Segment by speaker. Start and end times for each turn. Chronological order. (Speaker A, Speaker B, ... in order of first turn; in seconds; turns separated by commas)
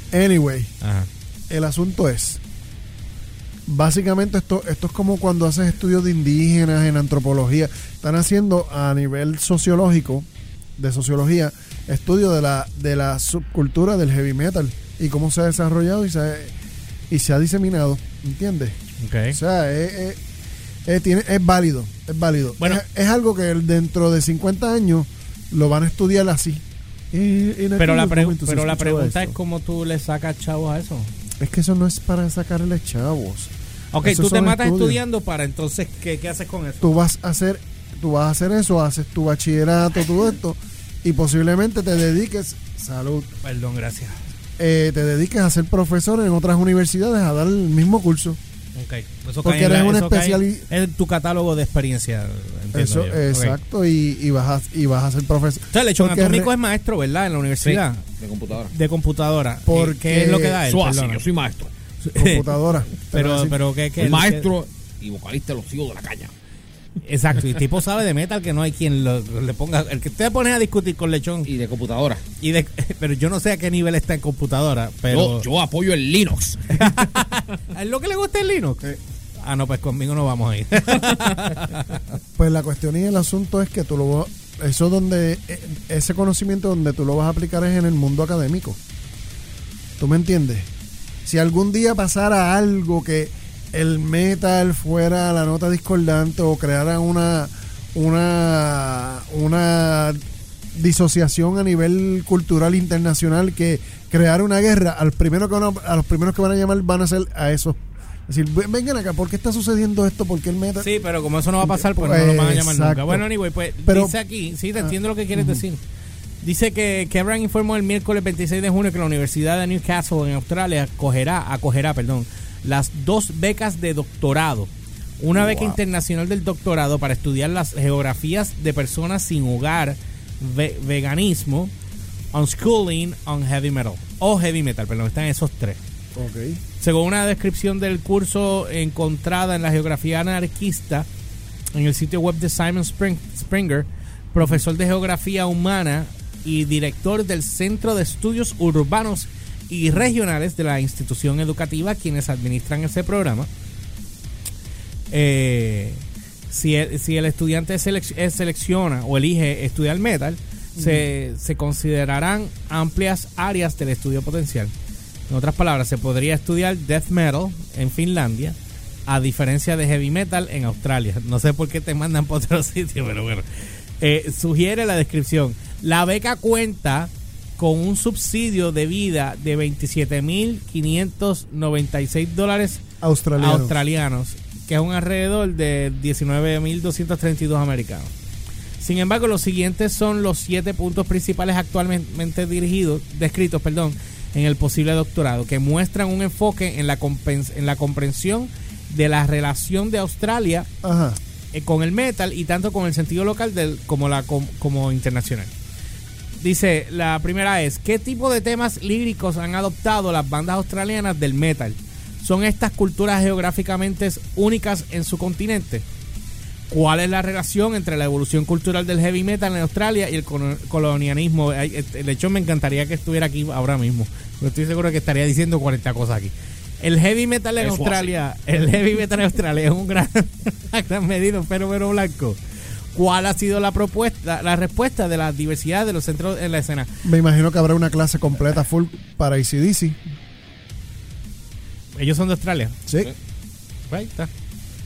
Speaker A: 0.1-0.7, Speaker B: 0.8-1.1, Speaker A: 1.5-2.4, Speaker A: 3.7-16.5, Speaker A: 17.1-18.8, Speaker B: 19.0-19.4, Speaker A: 19.3-20.2, Speaker A: 20.9-29.4, Speaker B: 27.8-31.1, Speaker A: 31.4-33.5, Speaker B: 33.9-37.0, Speaker A: 34.0-35.0, Speaker A: 36.8-43.3, Speaker B: 43.4-44.2, Speaker A: 44.6-48.4, Speaker B: 48.8-53.6, Speaker A: 49.4-50.7, Speaker A: 52.7-56.5, Speaker B: 55.7-58.0, Speaker C: 57.6-58.7, Speaker B: 58.7-61.2, Speaker A: 59.7-60.6, Speaker C: 60.6-61.7, Speaker B: 62.0-62.5, Speaker A: 62.2-63.6, Speaker B: 63.1-64.5, Speaker C: 64.0-66.3, Speaker B: 67.0-71.5, Speaker C: 71.5-72.2, Speaker B: 72.4-75.5, Speaker C: 75.1-77.2, Speaker B: 76.7-78.9, Speaker B: 79.4-82.0, Speaker A: 82.4-88.8, Speaker A: 90.0-90.7, Speaker A: 91.2-100.2, Speaker A: 100.7-110.9, Speaker B: 110.8-115.8, Speaker A: 111.6-113.2, Speaker A: 113.8-114.2, Speaker A: 114.8-115.7, Speaker B: 116.4-131.7, Speaker C: 125.3-125.8, Speaker B: 132.3-135.8, Speaker A: 136.2-136.6, Speaker B: 136.8-141.1, Speaker B: 141.7-153.5, Speaker B: 155.1-164.7, Speaker A: 160.8-161.1, Speaker B: 165.3-168.6, Speaker B: 169.1-173.5, Speaker B: 174.0-182.8, Speaker A: 183.0-183.8, Speaker B: 183.4-188.1, Speaker B: 188.8-200.7, Speaker A: 200.8-201.2, Speaker B: 201.5-205.5, Speaker B: 206.4-215.8, Speaker B: 216.7-232.4, Speaker C: 227.6-228.1, Speaker B: 232.9-236.9, Speaker A: 237.0-240.0, Speaker B: 241.9-242.8, Speaker B: 243.9-244.3